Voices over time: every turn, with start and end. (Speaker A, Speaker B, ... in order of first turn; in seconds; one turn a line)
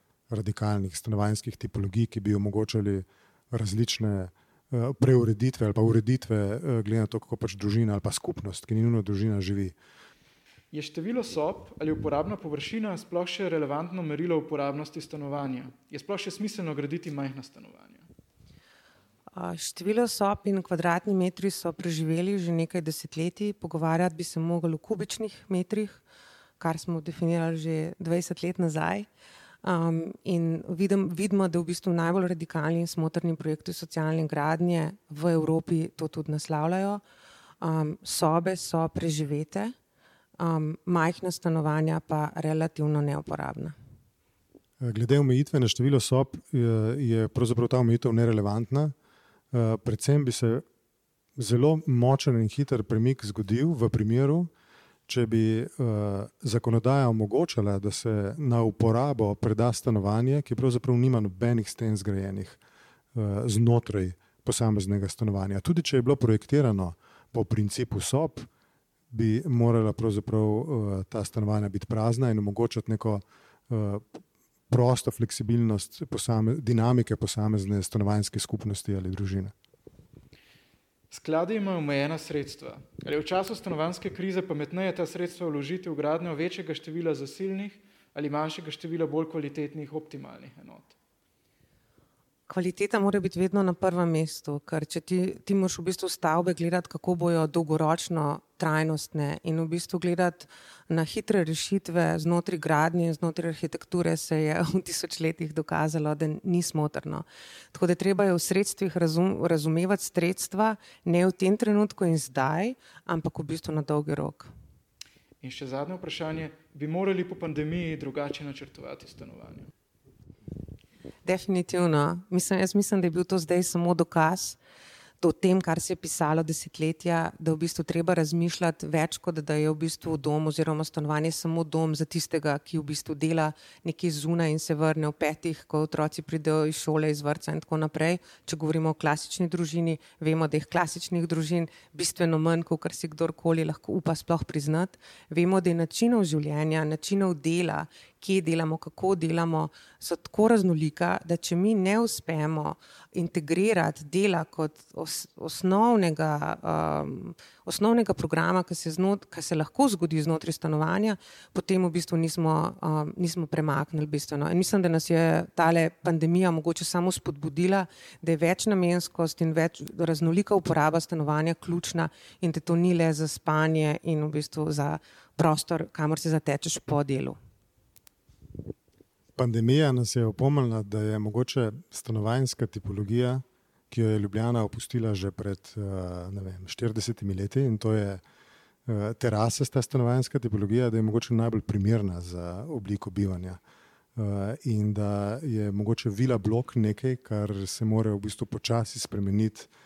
Speaker A: 0.3-9.8
Speaker B: 10.7-18.1
Speaker C: 19.3-26.0
Speaker C: 26.6-29.1
Speaker C: 29.6-37.0
Speaker C: 37.6-39.7
Speaker C: 40.4-43.8
Speaker A: 44.8-48.9
Speaker A: 49.5-50.6
Speaker A: 51.4-54.5
Speaker A: 55.1-62.6
Speaker A: 63.1-68.5
Speaker A: 69.1-79.5
Speaker B: 81.1-91.0
Speaker C: 92.5-114.5
Speaker B: 115.4-119.7
Speaker C: 121.2-124.6
Speaker C: 125.2-177.4
Speaker A: 179.4-188.2
Speaker A: 188.9-193.6
Speaker A: 194.2-199.7